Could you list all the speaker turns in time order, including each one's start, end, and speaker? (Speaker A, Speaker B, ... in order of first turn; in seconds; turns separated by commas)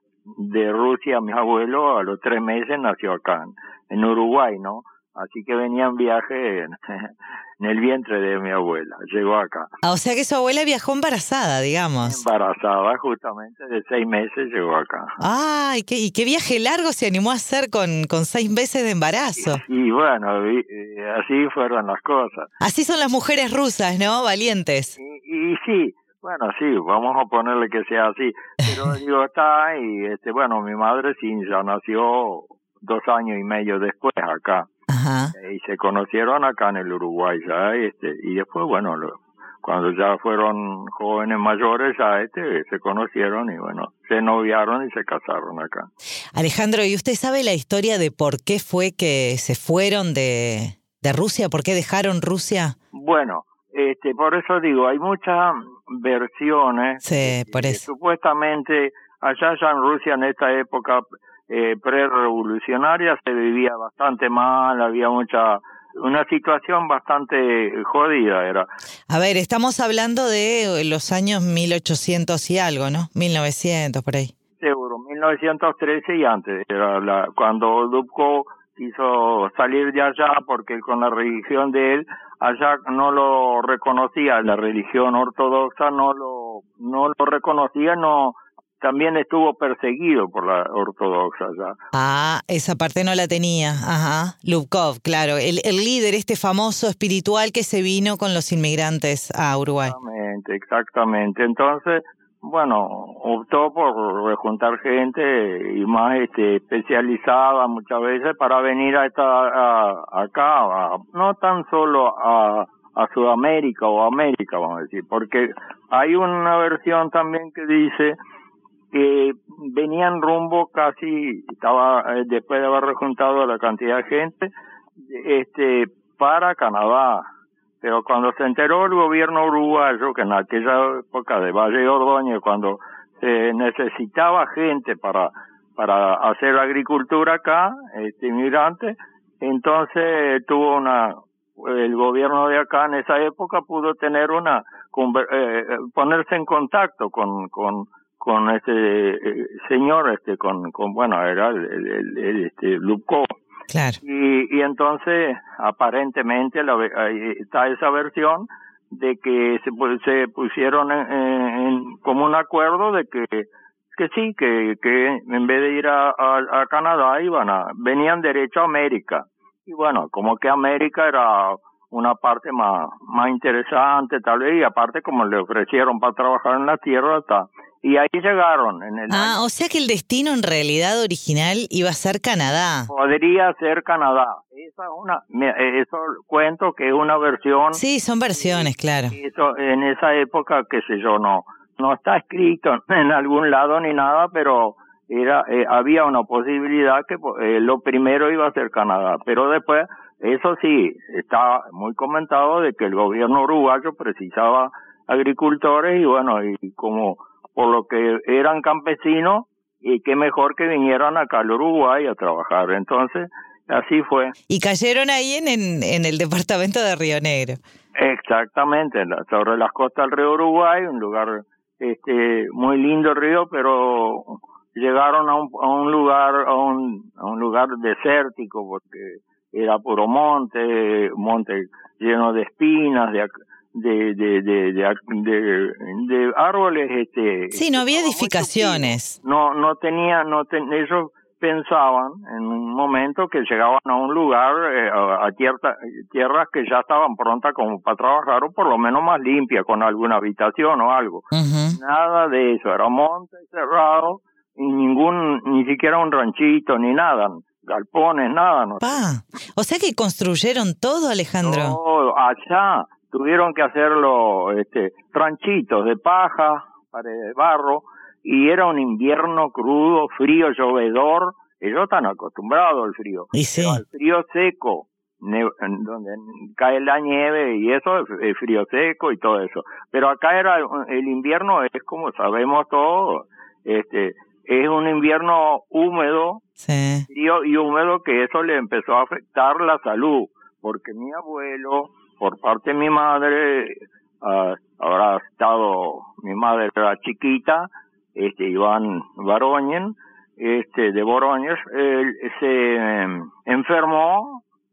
Speaker A: 0.3-9.7, Speaker B: 9.8-12.2, Speaker A: 12.0-15.1, Speaker B: 15.2-19.6, Speaker A: 19.4-22.5, Speaker B: 22.6-24.9, Speaker A: 25.0-34.7, Speaker B: 34.9-35.3, Speaker A: 35.3-45.9, Speaker B: 46.3-52.7, Speaker A: 52.9-68.7, Speaker B: 57.0-57.8, Speaker B: 69.1-74.3, Speaker A: 74.6-91.8, Speaker B: 91.9-99.9, Speaker A: 99.8-118.2, Speaker A: 118.9-124.5, Speaker A: 125.1-127.2, Speaker A: 127.8-153.3, Speaker B: 153.7-154.0, Speaker A: 154.0-179.4, Speaker B: 179.1-182.9, Speaker A: 182.9-187.8, Speaker B: 187.7-189.2, Speaker A: 188.3-214.3, Speaker B: 214.5-217.6, Speaker A: 217.9-259.0, Speaker B: 237.5-239.2, Speaker B: 251.3-251.8, Speaker B: 258.8-261.8, Speaker A: 261.4-286.4, Speaker B: 273.3-273.8, Speaker B: 286.6-287.0, Speaker A: 287.1-304.4